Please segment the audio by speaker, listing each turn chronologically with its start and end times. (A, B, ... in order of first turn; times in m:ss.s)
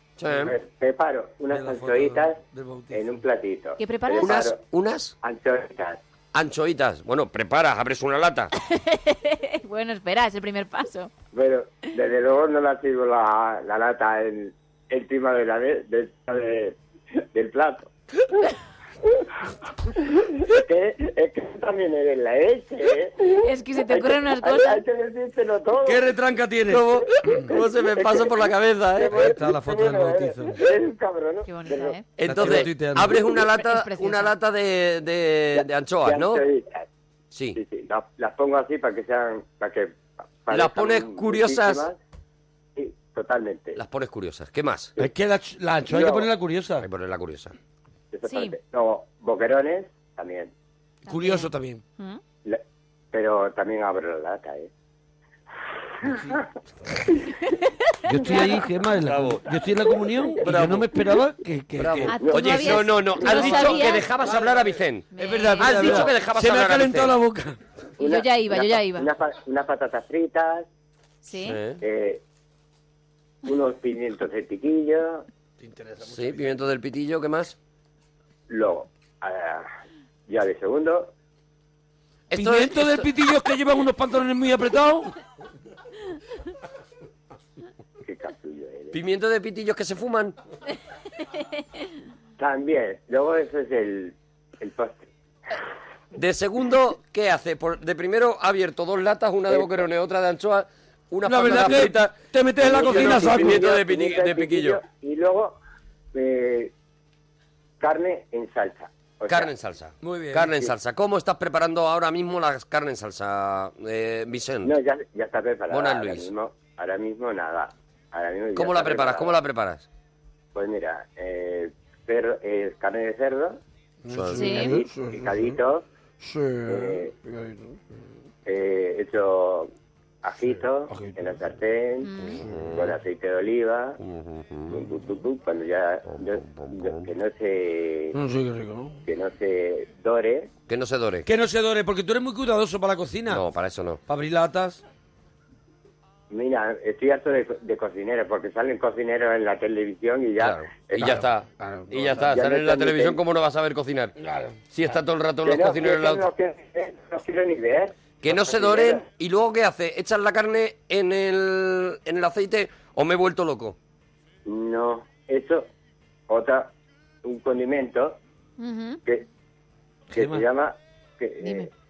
0:00.2-0:00.5 A
0:00.4-0:02.4 B
0:01.5-0:03.2 C
0:02.9-0:04.6 B
0:03.8-0:04.4 D
0:04.2-0:05.1 A
0:05.2-0:06.0 B
0:06.3-0:08.5 A
0:08.7-0:11.1 D
0:11.3-0:16.8 B
0:17.3-0:17.9 B
0:20.5-0:26.1 B
0:23.4-0:24.8 D
0:25.8-0:27.6 C
0:26.7-0:29.3 A
0:27.2-0:31.9 B
0:29.1-0:30.6 C
0:31.4-0:32.1 D
0:32.2-0:36.4 A
0:32.2-0:33.2 C
0:33.4-0:34.3 D
0:35.5-0:36.8 B
0:37.3-0:37.6 A
0:37.5-0:42.0 B
0:40.5-0:41.9 A
0:42.8-0:43.8 B
0:43.8-0:44.9 A
0:45.0-0:46.8 C
0:45.9-0:46.3 B
0:46.8-0:47.5 A
0:48.1-0:50.5 B
0:48.2-0:48.6 D
0:51.1-0:52.2 D
0:51.1-0:51.8 C
0:53.1-0:54.7 B
0:58.1-1:02.2 C
0:58.1-0:58.6 D
0:59.0-0:59.4 A
1:00.4-1:00.9 A
1:01.8-1:07.1 A
1:02.0-1:04.1 D
1:02.2-1:02.6 B
1:03.2-1:03.7 C
1:05.1-1:06.1 D
1:05.2-1:07.6 C
1:08.0-1:10.6 B
1:08.0-1:09.1 D
1:11.2-1:11.6 D
1:11.4-1:11.8 A
1:11.8-1:12.2 B
1:13.4-1:15.2 B
1:15.6-1:16.6 C
1:16.1-1:17.5 A
1:18.5-1:19.6 B
1:20.3-1:21.1 B
1:22.3-1:23.1 A
1:22.3-1:25.1 C
1:28.0-1:29.0 B
1:28.9-1:30.3 A
1:32.4-1:35.0 B
1:36.1-1:44.8 A
1:39.5-1:39.9 B
1:41.2-1:43.6 C
1:42.6-1:45.6 B
1:46.1-1:46.7 B
1:47.8-1:49.5 B
1:49.3-1:54.7 A
1:50.0-1:50.5 C
1:54.6-1:59.3 B
1:55.7-1:56.3 A
1:58.5-1:59.8 A
2:00.5-2:03.6 B
2:04.0-2:05.1 C
2:04.1-2:04.7 A
2:04.3-2:04.8 D
2:05.1-2:05.8 B
2:06.2-2:07.6 C
2:06.7-2:07.1 B
2:08.5-2:09.7 B
2:10.2-2:12.1 B
2:10.9-2:11.2 C
2:12.0-2:12.4 D
2:12.2-2:12.9 A
2:12.7-2:14.0 B
2:14.0-2:14.9 A
2:14.7-2:18.1 B
2:16.1-2:17.1 A
2:18.1-2:19.0 C
2:19.1-2:20.5 B
2:20.7-2:21.3 A
2:21.2-2:23.4 C
2:23.3-2:24.0 A
2:24.1-2:24.8 C
2:26.3-2:31.1 B
2:30.4-2:34.1 A
2:31.0-2:32.2 C
2:32.3-2:33.2 B
2:34.7-2:36.3 A
2:35.4-2:39.0 B
2:38.2-2:43.7 A
2:44.5-2:45.6 B
2:46.3-2:46.7 B
2:47.2-2:48.2 B
2:48.6-2:49.0 D
2:50.1-2:50.4 C
2:50.1-2:51.7 B
2:51.4-2:51.7 D